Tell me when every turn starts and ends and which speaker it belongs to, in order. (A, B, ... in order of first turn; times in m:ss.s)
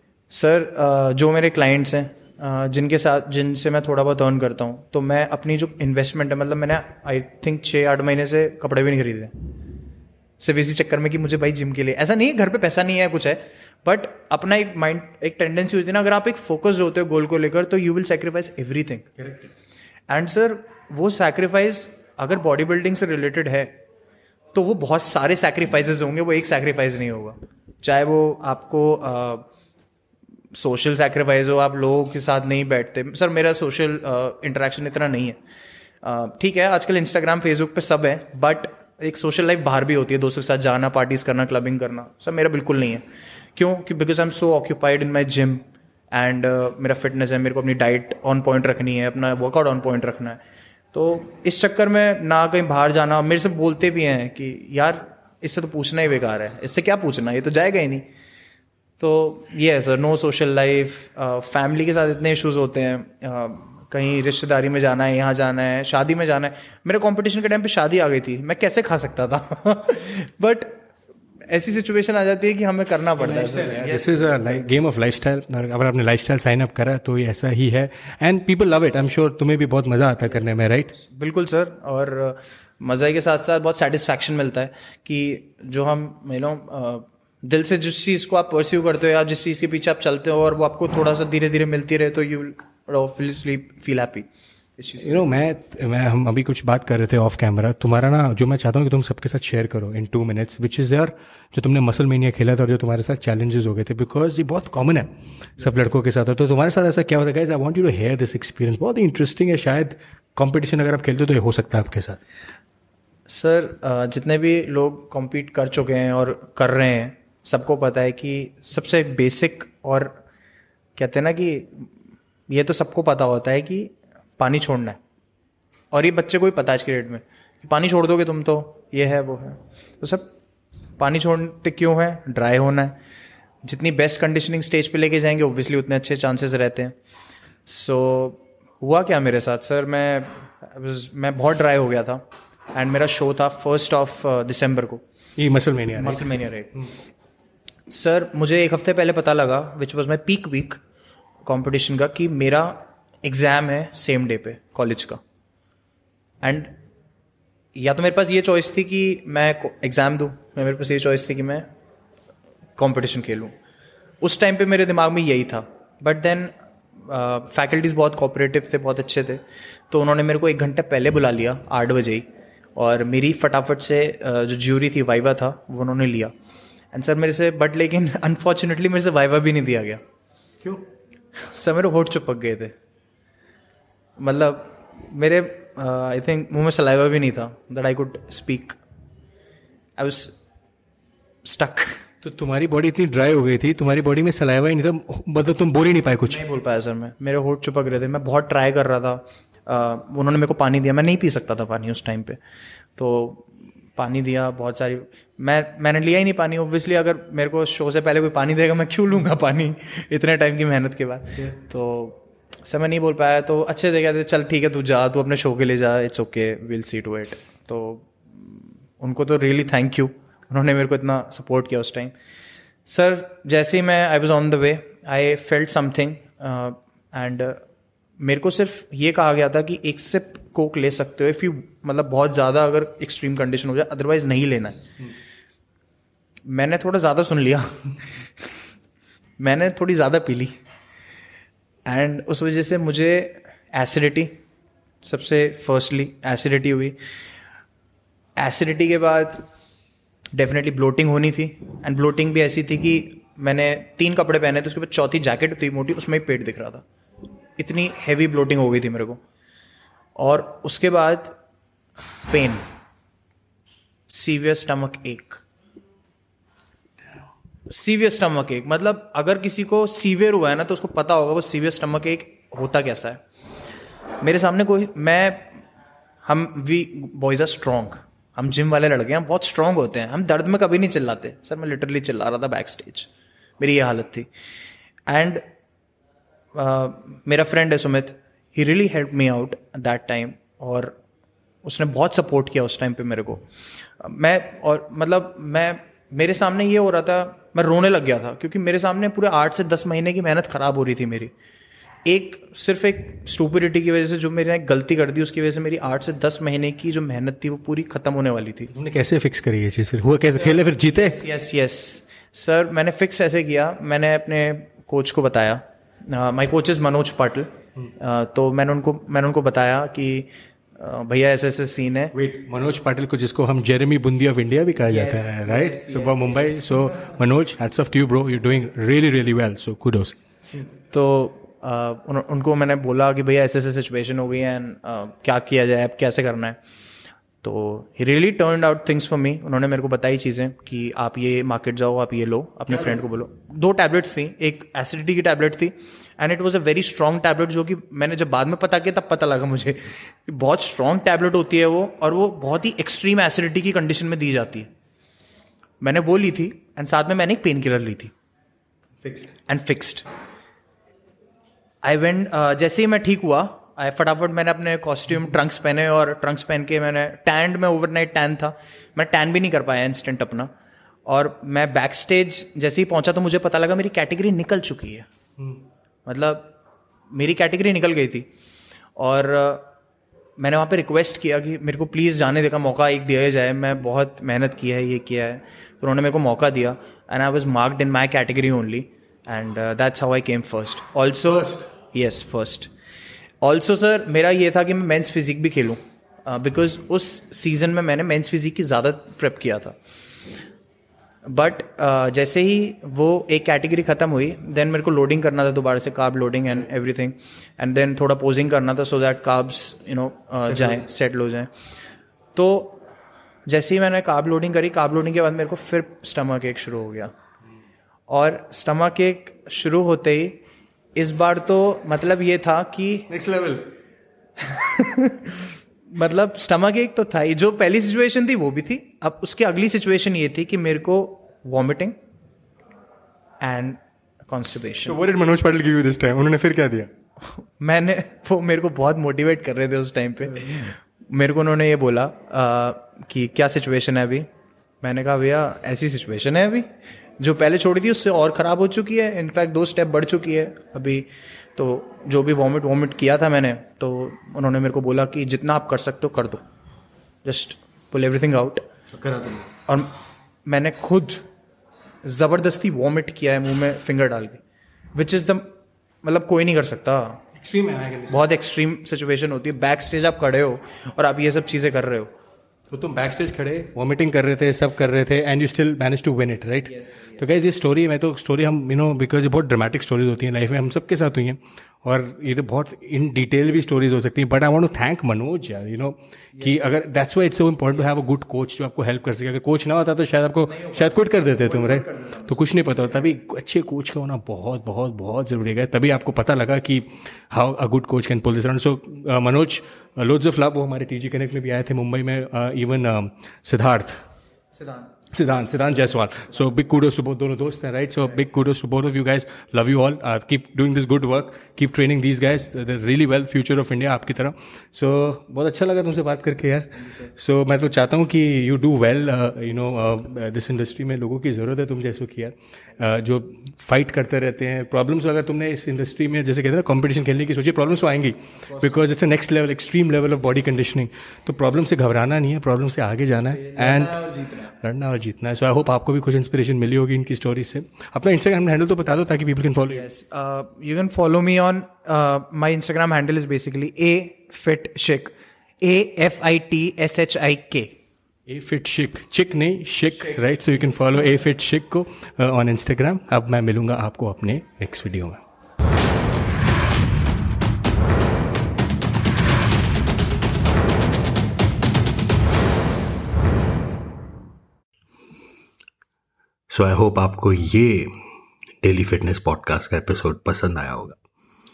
0:00.3-0:09.3 A
0:10.4-0:19.1 A
0:19.2-0:19.5 B
0:20.1-0:23.7 A
0:24.5-0:29.4 A
0:30.5-0:35.4 A
0:36.0-0:43.0 A
0:43.6-0:50.4 A
0:50.9-0:58.0 A
0:59.0-1:10.8 A
1:11.5-1:14.7 A
1:13.2-1:21.0 B
1:21.0-1:35.2 A
1:35.0-1:52.2 B
1:53.3-2:00.2 A
2:01.0-2:01.9 A
2:02.5-2:05.0 A
2:05.9-2:10.3 A
2:11.0-2:13.0 A
2:13.6-2:16.9 A
2:17.6-2:22.2 A
2:22.7-2:25.0 A
2:25.4-2:26.3 B
2:26.0-2:26.9 A
2:27.9-2:30.8 A
2:31.4-2:35.2 A
2:36.4-2:36.7 A
2:37.8-2:41.6 A
2:42.8-2:43.5 A
2:44.2-2:46.5 A
2:47.0-2:56.3 A
2:56.9-3:00.0 A
3:01.4-3:02.7 A
3:04.2-3:08.8 A
3:10.0-3:10.4 A
3:11.4-3:12.0 A
3:12.2-3:16.4 B
3:16.2-3:22.4 A
3:23.0-3:42.1 A
3:42.8-3:47.6 A
3:48.2-3:54.8 A
3:56.5-3:58.5 A
3:59.4-4:00.5 A
4:01.8-4:04.3 A
4:05.0-4:07.0 A
4:08.4-4:09.4 A
4:10.3-4:16.8 A
4:17.6-4:19.2 A
4:20.2-4:21.4 A
4:22.3-4:22.6 A
4:24.1-4:25.4 A
4:27.7-4:33.2 A
4:34.2-4:35.6 A
4:36.2-4:43.1 A
4:43.6-4:44.3 A
4:45.1-4:45.4 A
4:46.5-4:51.0 A
4:51.6-4:53.4 A
4:54.0-5:01.3 A
5:02.0-5:08.7 A
5:08.7-5:11.2 B
5:10.3-5:17.5 A
5:18.0-5:22.1 A
5:22.1-5:30.2 B
5:24.8-5:27.0 A
5:30.9-5:36.6 A
5:37.4-5:54.7 A
5:55.8-5:58.1 A
5:59.0-5:59.3 B
5:59.5-6:00.0 A
6:01.8-6:10.5 A
6:11.1-6:15.1 A
6:16.1-6:16.5 A
6:17.1-6:18.3 A
6:19.0-6:19.7 A
6:20.4-6:32.7 A
6:31.4-6:31.6 B
6:33.4-6:39.8 A
6:41.2-6:51.5 A
6:52.4-6:52.8 A
6:53.5-6:57.1 A
6:58.1-7:00.4 A
7:01.0-7:03.1 A
7:03.1-7:03.6 B
7:04.4-7:12.0 A
7:13.4-7:15.0 A
7:14.8-7:16.9 B
7:17.2-7:24.3 A
7:24.8-7:26.7 A
7:27.2-7:36.4 A
7:37.2-7:38.6 A
7:38.9-7:39.5 B
7:40.4-7:41.2 A
7:42.0-7:44.4 A
7:44.9-7:45.5 A
7:46.0-7:47.2 A
7:47.4-7:48.2 B
7:48.1-7:52.1 A
7:52.7-8:24.0 B
7:56.9-7:57.2 A
8:10.6-8:12.3 A
8:24.5-8:24.9 A
8:25.1-8:54.0 B
8:53.4-8:54.5 A
8:54.5-8:59.8 B
8:59.7-9:07.7 A
9:08.3-9:15.2 B
9:26.5-9:27.9 B
9:28.6-9:31.0 B